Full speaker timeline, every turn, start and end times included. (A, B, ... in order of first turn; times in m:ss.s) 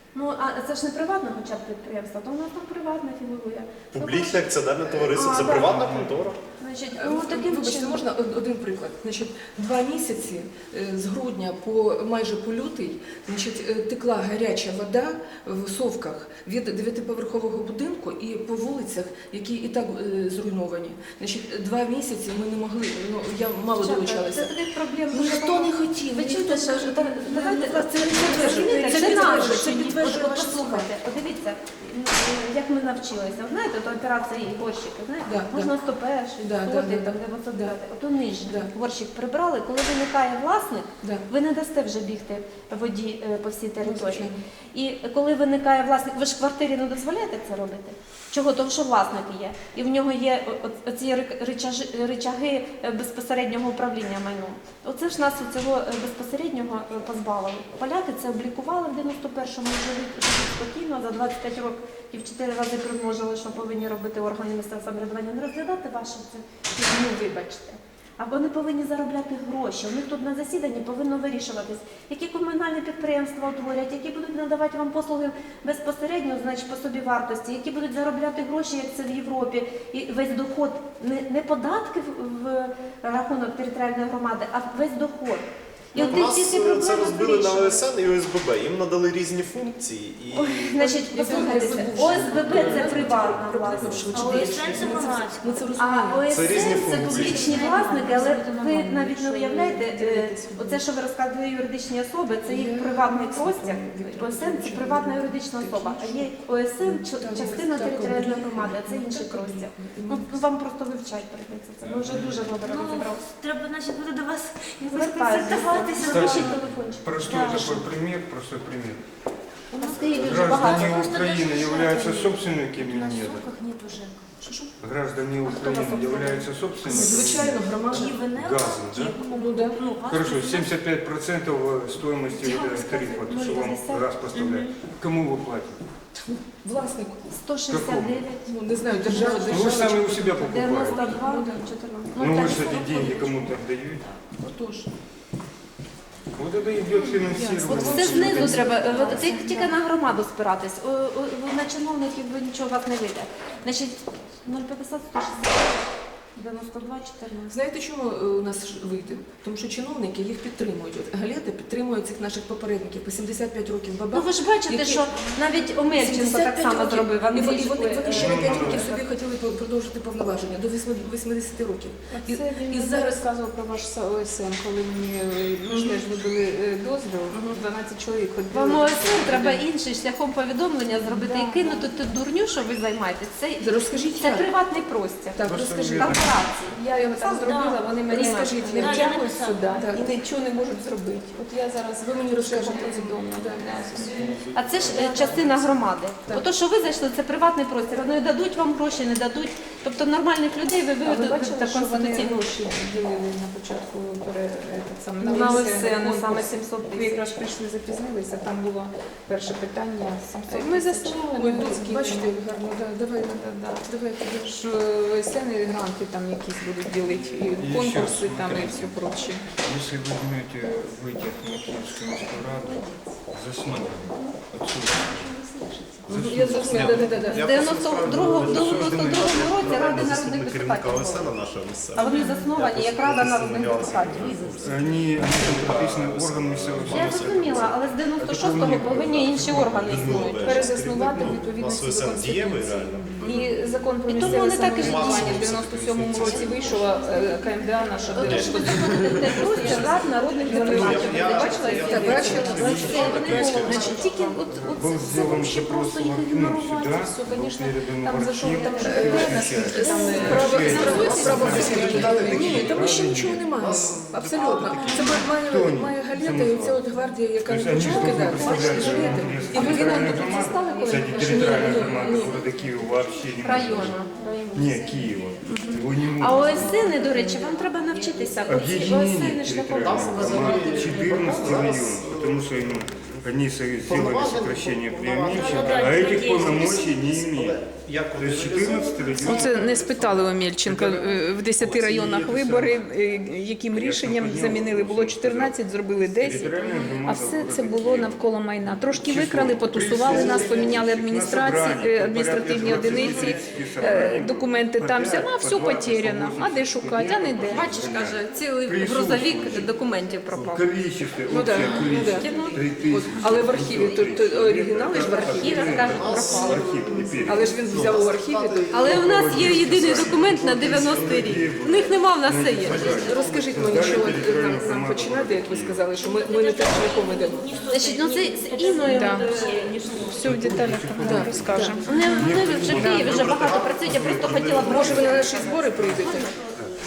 0:00.1-0:06.0 A
0:03.9-0:06.4 B
0:06.6-0:08.1 A
0:07.0-0:24.6 C
0:23.8-1:27.9 A
0:25.1-0:30.9 C
0:28.3-0:29.9 D
0:35.3-0:35.7 C
0:36.4-0:37.8 C
0:38.4-0:38.7 C
0:43.8-0:44.4 C
1:25.9-1:30.8 B
1:30.3-1:34.4 A
1:30.8-1:36.4 C
1:31.6-1:32.4 B
1:32.5-1:33.2 E
1:34.1-1:40.0 D
1:35.8-1:53.2 A
1:36.3-1:37.5 B
1:37.4-1:37.7 C
1:39.7-1:40.8 C
1:42.4-1:50.4 C
1:51.8-1:52.5 E
1:52.6-1:57.9 D
1:54.8-1:57.1 A
1:56.0-1:59.0 E
1:59.7-2:04.3 D
1:59.7-2:01.0 A
2:00.1-2:03.5 E
2:04.4-2:04.7 A
2:04.8-2:07.7 E
2:05.4-2:06.5 A
2:06.9-2:08.2 C
2:07.2-2:10.8 D
2:08.3-2:09.2 E
2:09.3-2:09.8 C
2:10.1-2:15.8 E
2:12.4-2:14.1 A
2:14.3-2:14.7 D
2:16.2-2:17.4 C
2:17.4-2:18.5 A
2:17.7-2:18.2 E
2:18.5-2:21.7 C
2:19.0-2:19.8 A
2:19.1-2:21.2 E
2:20.4-2:23.2 A
2:22.2-2:24.1 E
2:22.2-2:24.2 D
2:24.4-2:24.9 C
2:26.3-2:29.3 E
2:27.2-2:29.7 C
2:27.7-2:37.6 A
2:28.9-2:29.3 D
2:37.5-2:45.2 C
2:44.1-2:49.0 A
2:45.9-2:53.2 C
2:48.1-2:48.9 E
2:52.1-2:59.6 F
2:55.7-2:56.0 A
2:57.3-2:57.6 A
2:58.5-3:03.6 A
3:01.0-3:01.9 F
3:03.6-3:04.5 C
3:04.2-3:08.4 A
3:05.4-3:06.3 C
3:05.5-3:06.4 E
3:06.6-3:14.3 F
3:07.3-3:09.8 D
3:08.1-3:09.1 C
3:09.6-3:10.1 C
3:12.0-3:14.2 C
3:14.0-3:22.6 A
3:14.2-3:15.6 B
3:14.9-3:15.5 C
3:21.0-3:32.4 F
3:25.2-3:27.4 A
3:30.4-3:34.6 C
3:33.2-3:33.9 F
3:34.4-3:39.5 F
3:37.4-3:45.4 E
3:42.2-3:42.9 C
3:45.2-3:47.5 C
3:46.0-3:47.2 E
3:46.1-3:57.8 B
3:47.2-3:51.3 A
3:48.1-3:50.1 E
3:51.9-3:54.4 A
3:54.2-3:54.8 C
3:54.6-4:00.4 E
3:56.9-4:00.6 A
3:59.6-4:03.1 B
4:00.4-4:12.6 F
4:03.2-4:05.4 A
4:04.2-4:07.3 B
4:06.2-4:17.0 A
4:08.2-4:14.2 B
4:11.8-4:12.8 C
4:12.6-4:13.3 E
4:12.7-4:14.4 D
4:13.7-4:14.0 F
4:14.5-4:23.5 E
4:16.9-4:22.6 F
4:18.6-4:21.6 A
4:18.8-4:32.4 C
4:20.7-4:25.2 B
4:24.5-4:25.2 F
4:25.2-4:26.8 E
4:27.4-4:34.0 E
4:27.8-4:32.0 F
4:28.4-4:29.0 A
4:29.6-4:29.9 A
4:31.3-4:31.8 A
4:32.1-4:32.5 D
4:33.4-4:34.9 A
4:34.5-4:36.9 E
4:35.5-4:35.8 F
4:36.2-4:40.9 A
4:37.4-4:38.1 D
4:38.5-4:47.6 E
4:39.8-4:52.5 B
4:45.3-4:47.0 D
4:48.1-4:49.7 E
4:49.2-5:07.7 F
4:52.3-4:52.8 E
4:53.7-4:55.6 E
4:56.1-4:58.3 E
4:58.8-5:09.7 E
5:00.1-5:00.5 C
5:02.5-5:03.3 A
5:03.0-5:03.3 C
5:07.5-5:10.7 A
5:10.3-5:17.5 E
5:11.3-5:16.2 C
5:11.6-5:13.0 A
5:15.3-5:17.2 A
5:15.9-5:21.6 B
5:16.7-5:18.9 C
5:18.7-5:23.1 A
5:18.9-5:25.8 E
5:22.6-5:27.5 C
5:22.7-5:23.2 B
5:26.0-5:30.4 D
5:27.7-5:30.2 A
5:28.9-5:29.4 F
5:30.0-5:32.3 F
5:30.0-5:35.1 E
5:31.0-5:31.8 C
5:31.8-5:36.4 A
5:32.6-5:35.3 B
5:34.6-5:36.3 C
5:36.0-5:36.6 D